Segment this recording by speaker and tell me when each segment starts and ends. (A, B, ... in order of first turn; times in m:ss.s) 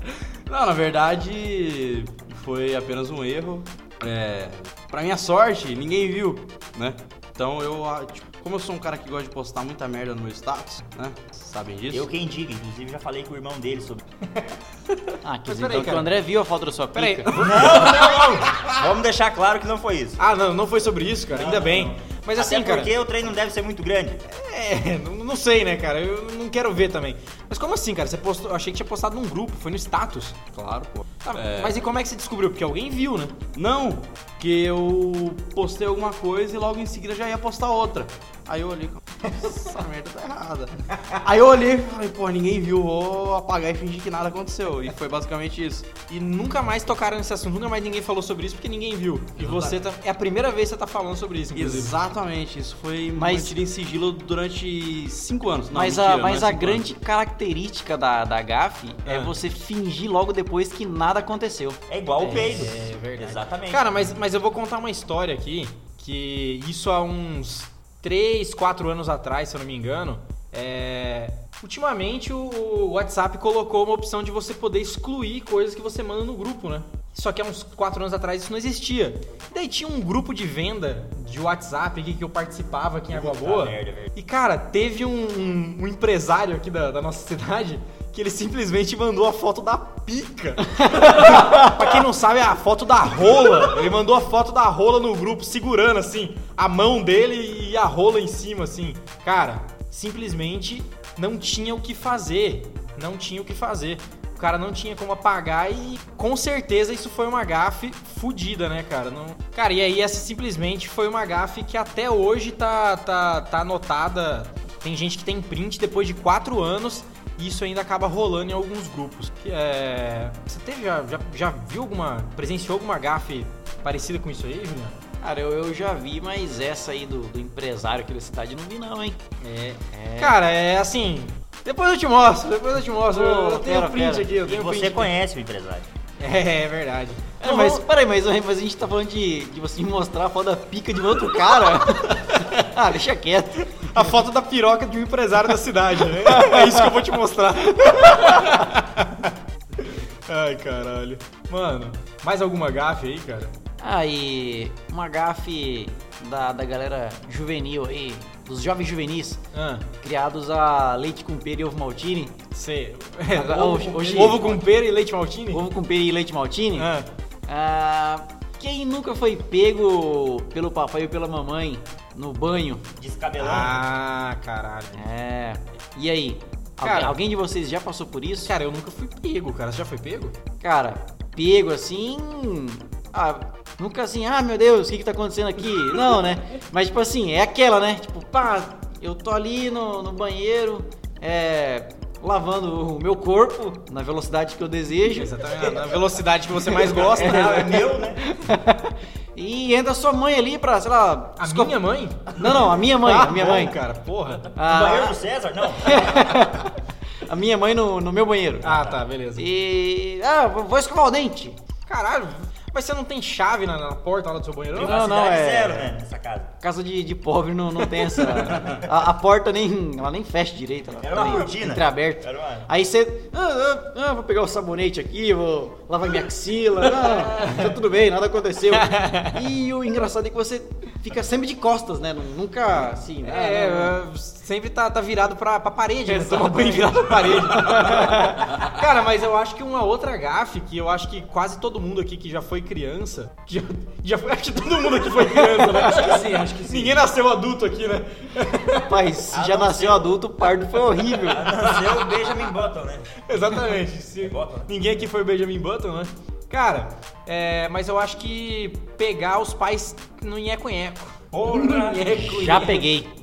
0:00.5-0:12.1 A
0:11.9-0:14.0 B
0:15.2-0:17.3 C
0:15.5-0:16.1 D
0:17.0-0:18.7 D
0:17.3-0:18.2 A
0:17.4-0:20.3 B
0:20.2-0:22.9 D
0:21.3-0:24.2 B
0:24.3-0:30.4 D
0:30.5-0:31.8 A
0:31.2-0:33.3 D
0:33.6-0:45.9 A
0:46.1-0:52.0 D
0:49.4-0:49.8 A
0:51.5-0:56.8 A
0:53.2-0:53.6 C
0:55.7-1:02.9 C
0:59.1-0:59.3 D
1:01.9-1:04.1 B
1:02.2-2:05.0 D
1:23.1-1:24.1 B
2:05.2-2:09.2 C
2:09.4-2:15.1 D
2:09.9-2:10.4 C
2:13.1-2:14.3 C
2:14.4-2:15.9 B
2:16.2-2:17.8 D
2:17.4-2:24.1 C
2:23.8-2:29.3 D
2:29.9-2:33.5 D
2:33.8-2:39.4 C
2:39.5-2:39.9 D
2:40.0-2:42.4 C
2:42.5-2:45.6 D
2:43.3-2:44.7 C
2:45.5-2:46.9 C
2:46.8-2:47.1 D
2:47.5-2:52.8 C
2:53.0-2:53.8 B
2:53.4-2:55.0 D
2:55.0-2:58.5 C
2:56.8-2:57.2 D
2:58.5-3:00.4 D
3:00.6-3:15.4 C
3:15.1-3:17.8 D
3:16.7-3:18.2 B
3:17.0-3:21.8 C
3:21.4-3:24.4 D
3:22.3-3:23.8 C
3:24.5-3:25.2 C
3:24.6-3:26.5 B
3:25.8-3:28.8 C
3:28.6-3:29.5 D
3:28.6-3:29.0 B
3:29.4-3:31.6 C
3:31.9-3:35.0 D
3:34.7-3:36.6 B
3:34.8-3:35.9 C
3:36.6-3:54.0 C
3:38.5-3:38.8 B
3:41.0-3:42.7 B
3:46.9-3:47.8 D
3:48.7-3:49.4 D
3:53.2-4:08.9 D
3:56.1-3:58.6 C
4:05.6-4:06.2 C
4:06.2-4:06.5 A
4:08.8-4:11.5 C
4:09.3-4:10.2 B
4:11.2-4:13.4 B
4:13.2-4:22.9 D
4:14.2-4:14.7 B
4:21.3-4:22.7 B
4:22.2-4:23.1 C